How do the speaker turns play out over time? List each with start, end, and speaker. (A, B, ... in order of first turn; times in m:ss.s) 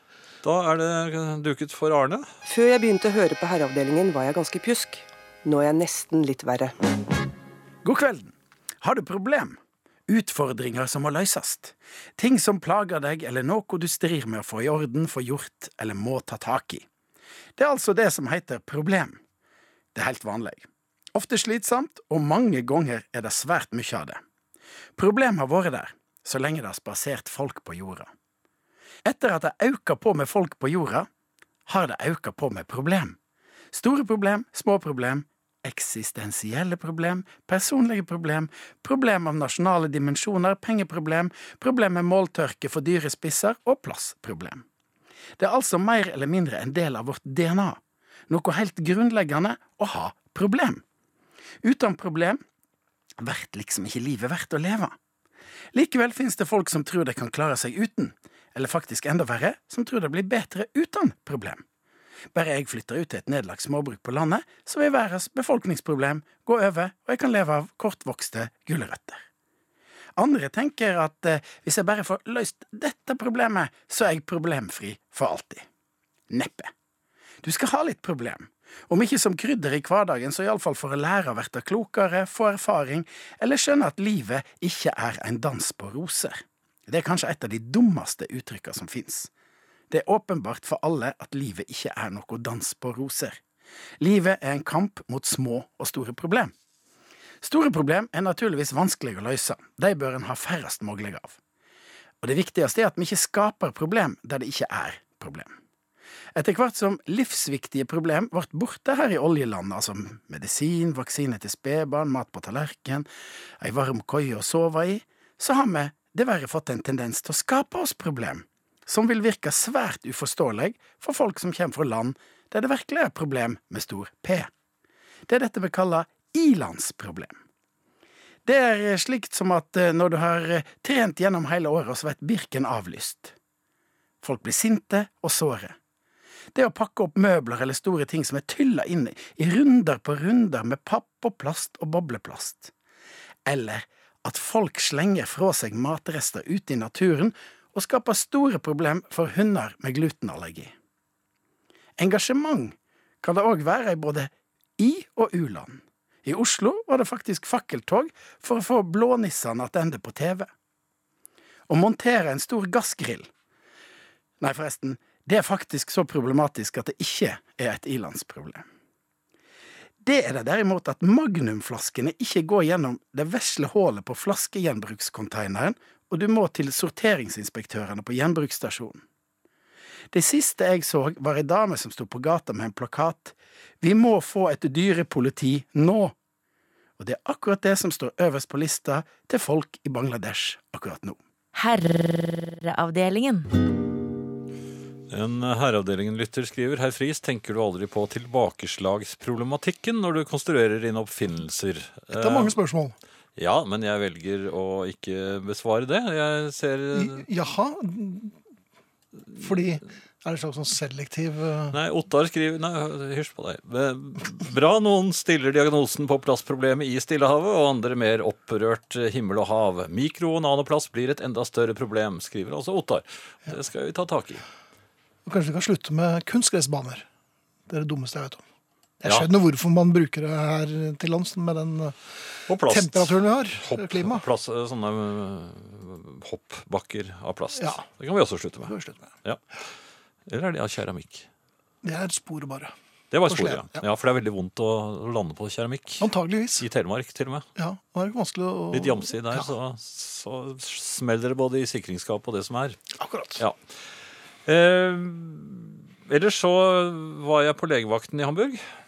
0:00.4-0:02.3 A
0:02.5-0:06.7 B
0:07.8-0:09.6 C
0:10.1-0:16.8 C
0:17.6-0:19.2 C
0:19.9-0:24.2 C
0:25.0-0:28.1 C
0:29.0-0:31.1 C
0:31.7-0:33.2 C
0:33.7-0:44.6 C
0:45.4-0:47.8 C
0:48.3-0:50.8 C
0:51.6-0:52.4 C
0:53.2-0:54.9 C
0:55.7-1:01.6 C
1:02.3-1:09.2 C
1:10.2-1:15.6 C
1:16.3-1:16.7 C
1:17.4-1:29.3 C
1:29.9-1:33.4 C
1:34.0-1:36.5 C
1:37.4-1:41.4 C
1:42.2-1:45.5 C
1:46.3-1:53.1 C
1:53.6-2:04.5 C
2:05.3-2:07.4 C
2:08.4-2:13.3 C
2:14.2-2:15.8 C
2:16.5-2:22.7 C
2:23.4-2:30.7 C
2:32.0-2:40.5 C
2:41.7-2:43.3 C
2:44.4-2:48.6 C
2:50.0-2:59.0 C
3:00.1-3:06.1 C
3:07.0-3:11.2 C
3:11.5-3:13.5 D
3:15.1-3:22.6 A
3:22.1-3:22.9 E
3:23.4-3:27.3 A
3:26.9-3:28.3 E
3:29.3-3:31.8 E
3:31.7-3:44.4 A
3:45.2-3:47.0 E
3:47.7-3:48.4 E
3:49.0-3:54.2 E
3:52.5-3:59.4 A
3:57.6-3:57.8 E
3:58.6-3:59.1 E
4:00.2-4:01.3 A
4:01.8-4:02.7 E
4:03.1-4:06.1 A
4:03.3-4:03.8 E
4:06.0-4:06.6 E
4:06.6-4:07.5 A
4:07.6-4:09.5 E
4:08.7-4:12.8 A
4:13.0-4:13.4 E
4:14.4-4:18.6 A